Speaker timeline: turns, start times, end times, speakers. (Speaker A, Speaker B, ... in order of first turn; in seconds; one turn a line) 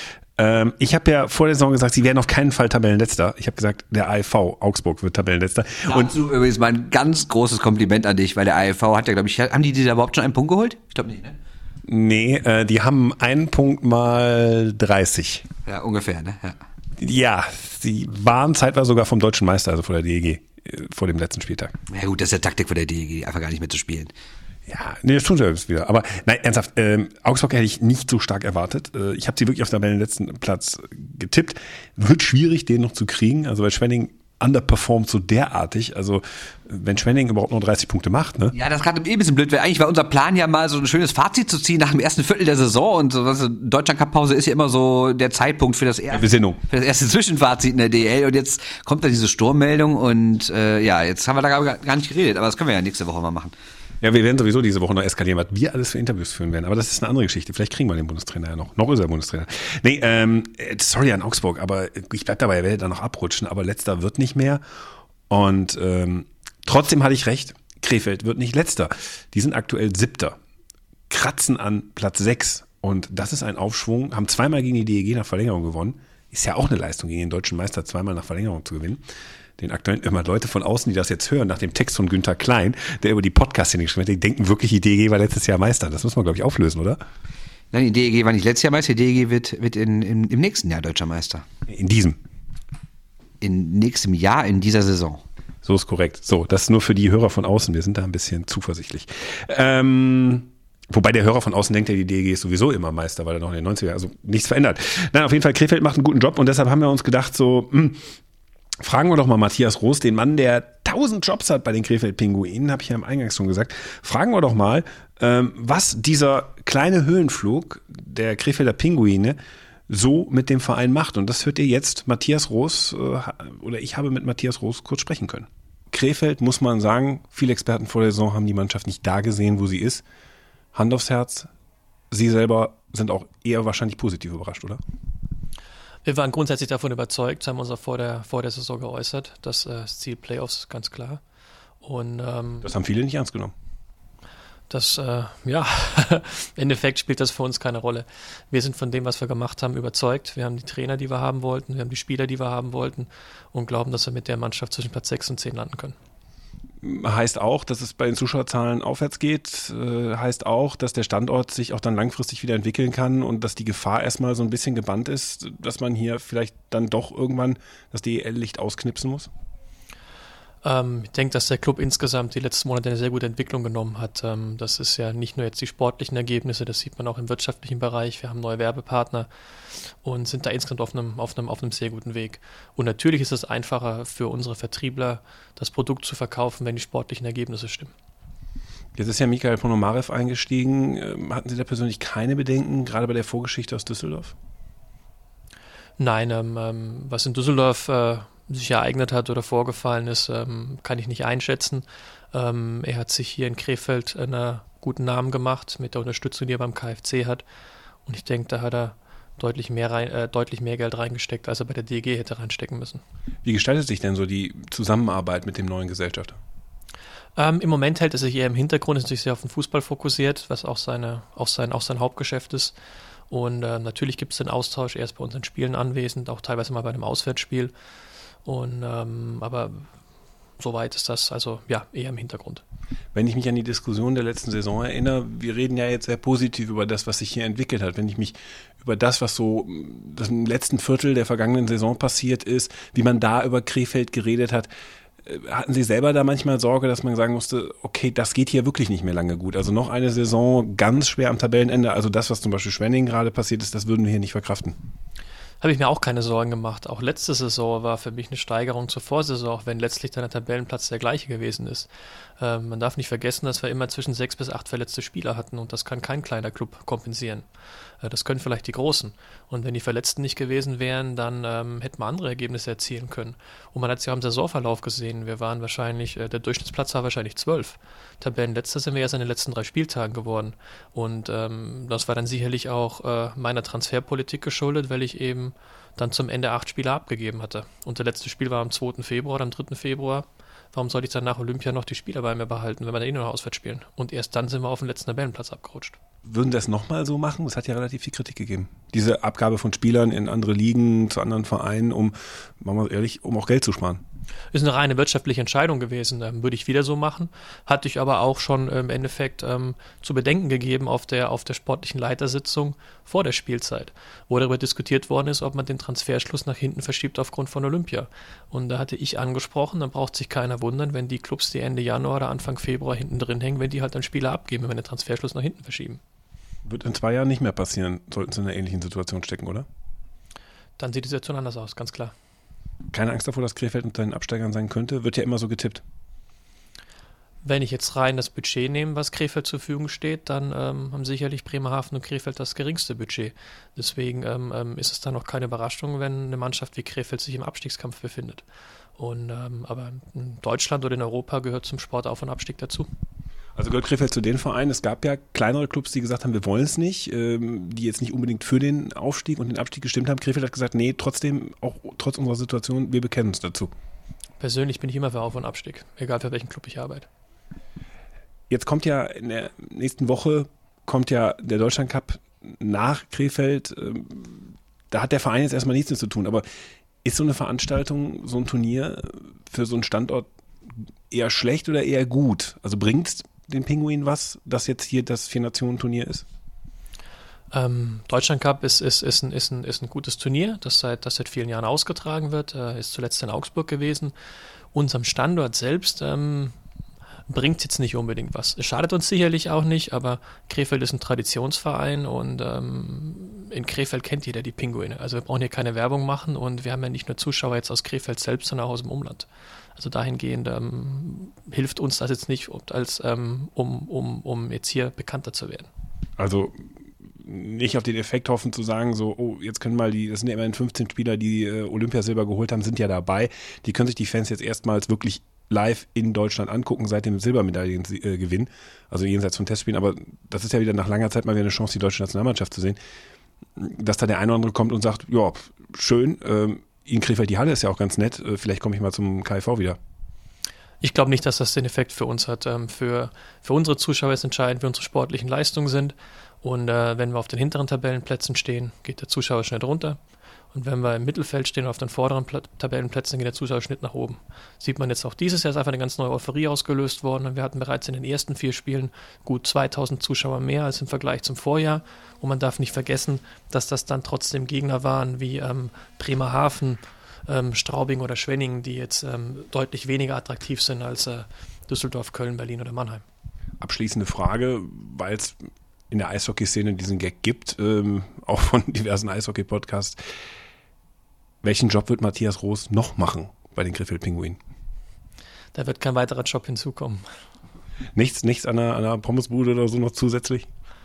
Speaker A: 0.4-6.1
Speaker B: 5.9-11.3
Speaker A: 11.9-15.4
Speaker B: 15.7-16.6
Speaker A: 17.0-21.7
Speaker B: 21.9-24.1
Speaker A: 24.7-38.5
Speaker B: 38.5-53.5
Speaker A: 46.1-46.6
Speaker A: 54.0-64.6
Speaker A: 65.3-70.4
Speaker A: 71.1-79.0
Speaker A: 79.6-87.0
Speaker B: 87.7-91.4
Speaker A: 91.7-92.2
Speaker B: 93.4-95.2
Speaker A: 95.6-108.0
Speaker A: 108.8-119.4
Speaker A: 119.9-130.0
Speaker A: 130.7-131.5
Speaker A: 132.1-134.8
Speaker C: 136.0-141.2
Speaker C: 141.8-142.7
Speaker A: 142.6-143.5
Speaker C: 144.7-155.9
Speaker A: 156.8-169.3
Speaker C: 170.6-179.3
Speaker C: 180.0-187.9
Speaker A: 188.9-194.3
Speaker C: 196.0-207.4
Speaker C: 208.1-213.0
Speaker A: 213.4-216.4
Speaker C: 217.3-222.7
Speaker C: 223.3-227.7
Speaker C: 228.4-229.8
Speaker C: 230.6-232.6
Speaker A: 233.1-244.7
Speaker A: 245.2-254.8
Speaker C: 255.6-261.9
Speaker C: 262.4-267.5
Speaker C: 268.0-295.9
Speaker A: 296.2-304.0
Speaker C: 304.5-326.0
Speaker A: 326.6-329.6
Speaker C: 330.8-332.1
Speaker A: 332.9-335.8
Speaker C: 337.4-348.4
Speaker C: 349.0-352.9
Speaker A: 353.6-363.7
Speaker C: 364.4-367.1
Speaker A: 368.5-376.4
Speaker A: 377.0-380.3
Speaker A: 381.1-386.2
Speaker C: 387.5-394.1
Speaker C: 394.7-396.5
Speaker C: 397.3-415.7
Speaker A: 416.2-416.5
Speaker A: 417.2-432.8
Speaker A: 433.6-439.8
Speaker C: 440.8-450.0
Speaker C: 450.5-473.0
Speaker A: 473.6-475.4
Speaker A: 475.9-480.0
Speaker A: 481.4-484.4
Speaker C: 485.5-487.0
Speaker A: 487.9-490.5